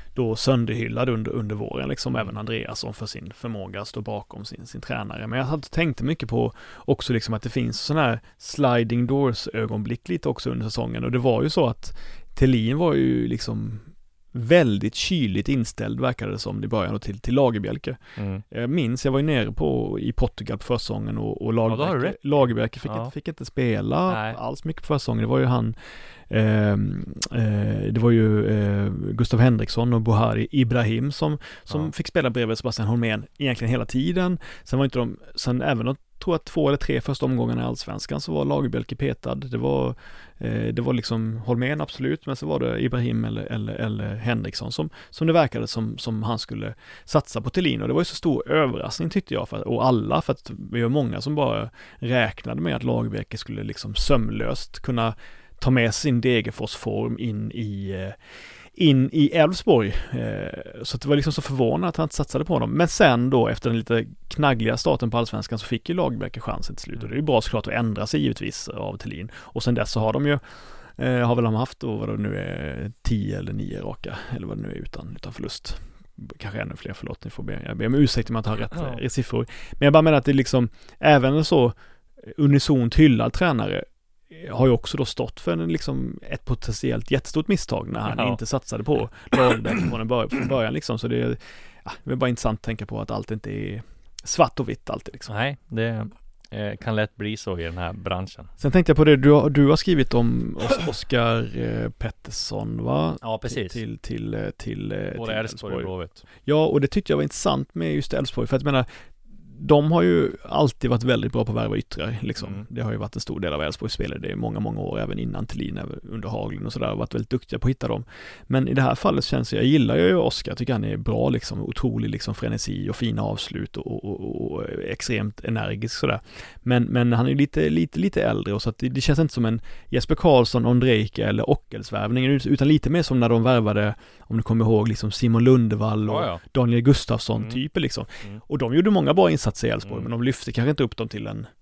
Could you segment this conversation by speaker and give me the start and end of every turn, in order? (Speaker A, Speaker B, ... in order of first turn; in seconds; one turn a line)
Speaker A: 0.1-18.0
Speaker B: 18.2-18.4
Speaker A: 18.5-25.8
Speaker B: 21.7-23.1
Speaker B: 24.1-24.4
Speaker A: 26.3-58.2
Speaker A: 58.7-95.3
Speaker B: 78.7-79.0
Speaker B: 88.0-88.4
Speaker B: 95.3-98.5
Speaker A: 98.6-108.9
Speaker B: 103.2-103.8
Speaker B: 105.1-106.2
Speaker A: 109.5-141.5
Speaker B: 112.4-112.7
Speaker B: 136.1-136.4
Speaker B: 137.3-137.6
Speaker B: 139.8-140.1